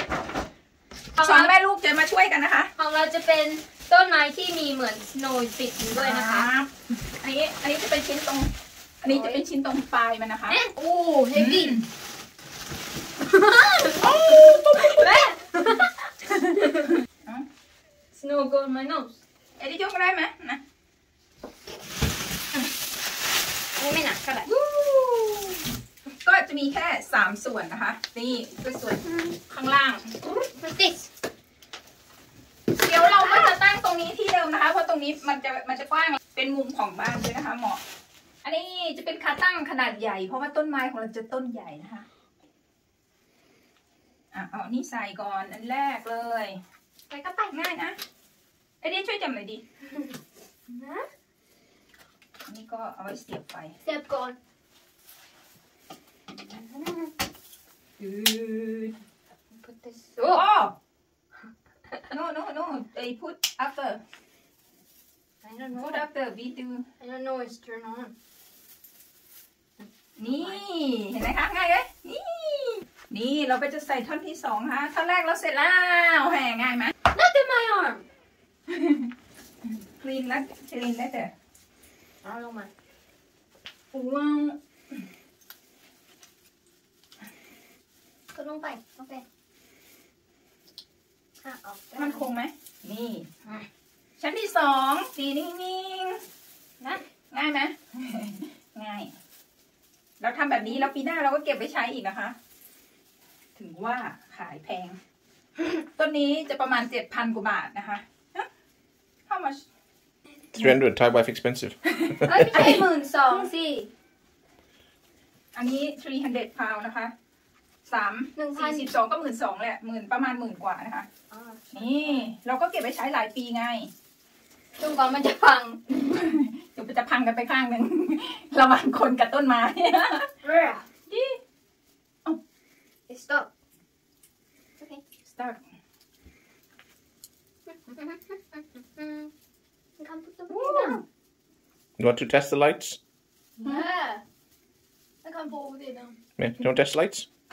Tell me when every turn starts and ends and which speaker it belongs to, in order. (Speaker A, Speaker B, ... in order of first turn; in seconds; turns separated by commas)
Speaker A: 1.2-1.5, Speaker B: 1.2-2.7, Speaker A: 2.8-6.5, Speaker B: 5.9-6.7, Speaker B: 7.2-8.5, Speaker B: 9.0-10.6, Speaker A: 9.0-9.4, Speaker A: 10.5-11.8, Speaker B: 11.3-11.9, Speaker A: 13.2-16.9, Speaker B: 14.0-15.1, Speaker A: 18.1-19.2, Speaker B: 19.6-20.6, Speaker A: 23.8-24.5, Speaker B: 24.5-25.5, Speaker B: 26.1-30.1, Speaker A: 29.0-29.3, Speaker A: 30.3-31.1, Speaker B: 32.8-37.8, Speaker A: 33.0-33.5, Speaker B: 38.4-42.1, Speaker B: 44.3-46.6, Speaker A: 47.1-47.5, Speaker B: 47.5-48.0, Speaker B: 48.8-49.6, Speaker A: 50.7-51.1, Speaker B: 52.5-53.7, Speaker A: 53.8-54.4, Speaker A: 56.4-57.1, Speaker B: 58.0-58.9, Speaker A: 58.3-58.7, Speaker A: 59.6-60.4, Speaker B: 60.2-60.7, Speaker B: 62.1-64.0, Speaker A: 65.4-66.0, Speaker B: 65.7-66.8, Speaker A: 67.0-68.1, Speaker A: 69.8-70.6, Speaker B: 70.2-76.9, Speaker A: 77.1-78.0, Speaker B: 78.7-79.1, Speaker B: 79.6-81.3, Speaker A: 82.2-82.7, Speaker B: 83.9-84.6, Speaker A: 88.3-89.2, Speaker A: 91.4-92.3, Speaker B: 92.0-93.3, Speaker B: 94.2-96.2, Speaker B: 97.3-99.1, Speaker B: 100.2-102.3, Speaker B: 103.5-105.0, Speaker B: 105.9-108.4, Speaker B: 109.3-109.6, Speaker C: 110.5-112.6, Speaker B: 111.9-113.5, Speaker A: 112.2-113.9, Speaker B: 115.5-117.1, Speaker B: 117.9-121.1, Speaker A: 118.3-118.9, Speaker A: 121.3-122.3, Speaker B: 121.7-123.9, Speaker A: 124.8-126.0, Speaker B: 126.0-130.3, Speaker A: 130.4-130.9, Speaker B: 131.1-131.3, Speaker A: 133.1-133.5, Speaker B: 135.2-135.6, Speaker A: 137.7-139.3, Speaker A: 140.0-141.0, Speaker B: 140.5-141.0, Speaker C: 142.0-143.0, Speaker A: 143.6-144.2, Speaker A: 145.2-146.2, Speaker C: 146.4-147.3